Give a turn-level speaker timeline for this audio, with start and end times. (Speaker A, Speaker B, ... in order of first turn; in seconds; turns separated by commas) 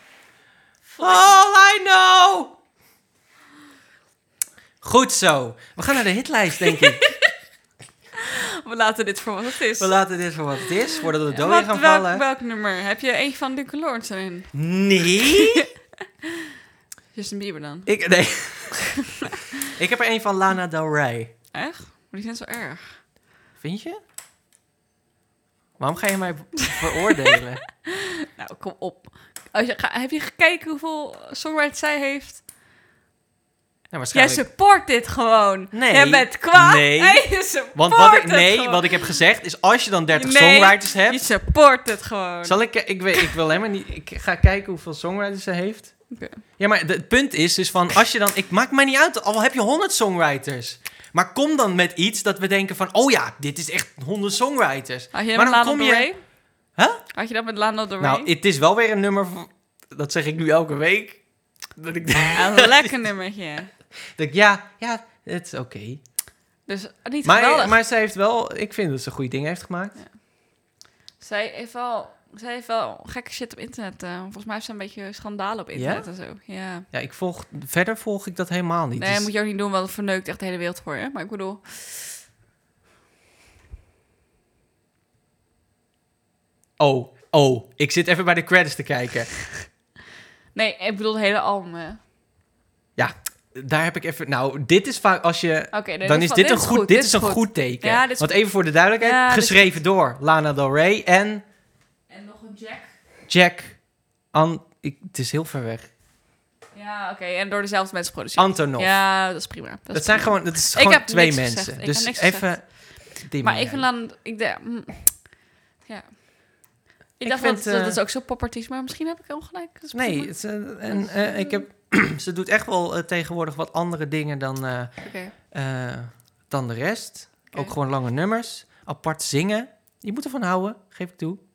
Speaker A: 0.9-1.4, Speaker B: 1.0-2.6, Speaker B: 4.8-7.0, Speaker A: 6.7-7.3, Speaker A: 8.2-9.9, Speaker B: 9.8-12.2, Speaker A: 11.2-14.5, Speaker B: 14.5-15.7, Speaker A: 15.1-15.7, Speaker A: 17.1-17.9, Speaker B: 17.9-18.9, Speaker B: 19.6-21.3, Speaker A: 21.5-23.0, Speaker B: 23.6-24.0, Speaker B: 25.8-27.6, Speaker A: 27.9-32.4, Speaker B: 33.9-34.5, Speaker A: 34.1-39.2, Speaker B: 35.7-41.2, Speaker A: 40.1-42.6, Speaker B: 42.4-46.0, Speaker A: 46.1-46.4, Speaker B: 46.5-56.1, Speaker A: 55.1-56.2, Speaker B: 56.7-57.0, Speaker A: 57.1-58.3, Speaker B: 58.0-62.9, Speaker A: 62.4-63.7, Speaker B: 64.2-66.0, Speaker A: 66.7-67.8, Speaker B: 67.2-70.0, Speaker A: 71.2-76.9, Speaker B: 75.7-76.1, Speaker B: 76.9-79.3, Speaker A: 79.0-82.2, Speaker B: 86.8-89.3, Speaker A: 90.5-92.0, Speaker B: 93.0-101.4, Speaker A: 95.7-99.8, Speaker A: 102.1-102.9, Speaker B: 103.3-105.9, Speaker A: 106.7-121.6, Speaker B: 108.4-109.1, Speaker B: 109.9-113.8, Speaker B: 117.2-118.0, Speaker B: 119.9-131.4, Speaker A: 125.0-125.3